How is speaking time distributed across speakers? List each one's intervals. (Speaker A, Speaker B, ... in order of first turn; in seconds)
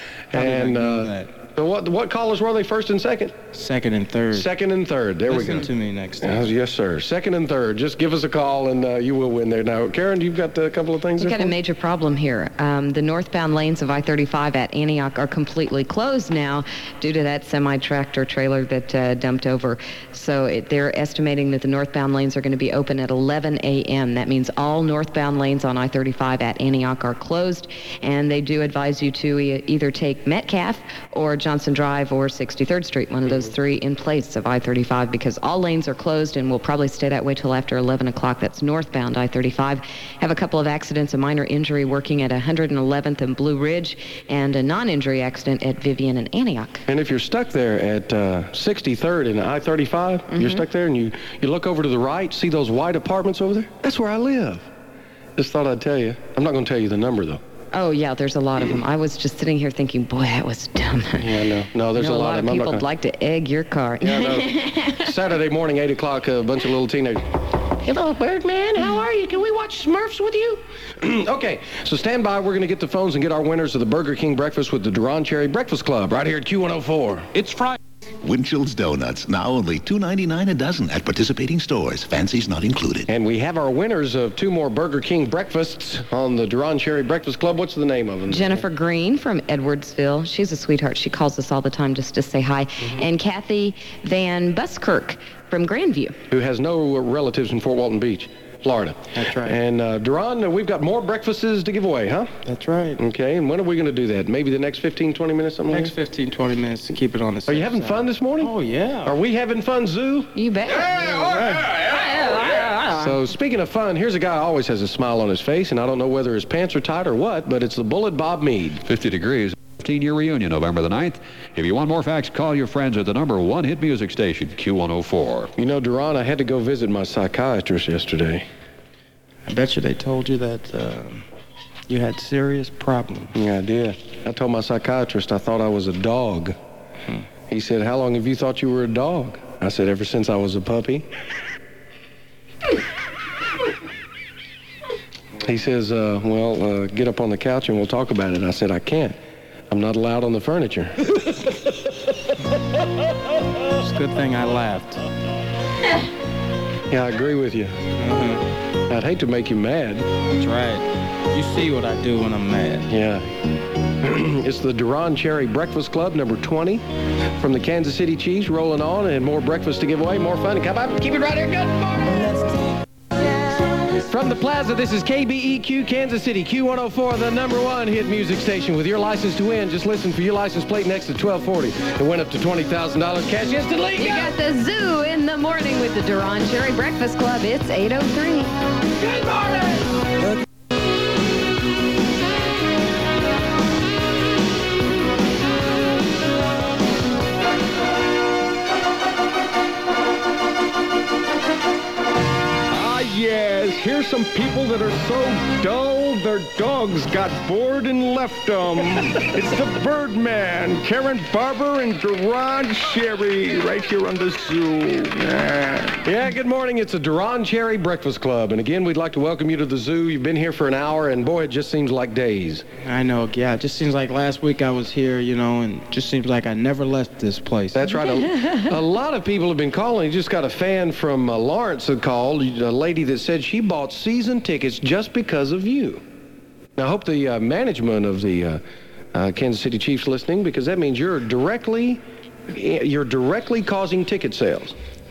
Speaker A: 0.3-3.4, 4.3-5.7, 6.2-11.5, 46.9-54.7, 55.4-57.4, 61.2-62.8, 64.0-67.2, 67.8-77.4, 83.1-88.6, 96.3-102.3, 103.0-105.9, 107.5-108.5, 109.0-110.3, 113.0-118.8, 125.6-128.4, 133.3-136.6, 137.5-141.1, 145.4-149.2, 149.7-150.9, 156.9-157.8, 158.9-160.1, 162.9-163.3, 164.0-166.8, 167.4-172.3, 174.0-184.3, 189.0-189.6, 216.0-222.6, 227.7-236.0, 236.8-238.6, 239.1-244.7
Speaker B: 0.3-1.3, 3.5-4.5, 5.3-6.5, 99.1-99.6, 102.4-103.0, 105.7-109.2, 111.0-111.7, 129.5-131.2, 131.9-133.3, 153.8-155.0, 158.0-158.4, 160.3-162.9, 215.2-216.0, 222.8-227.9
Speaker C: 11.2-46.8, 50.3-50.6, 57.7-61.3, 61.9-65.0, 88.3-96.2, 110.3-113.2, 184.0-188.5
Speaker D: 78.2-83.1
Speaker E: 118.9-125.5
Speaker F: 202.7-215.3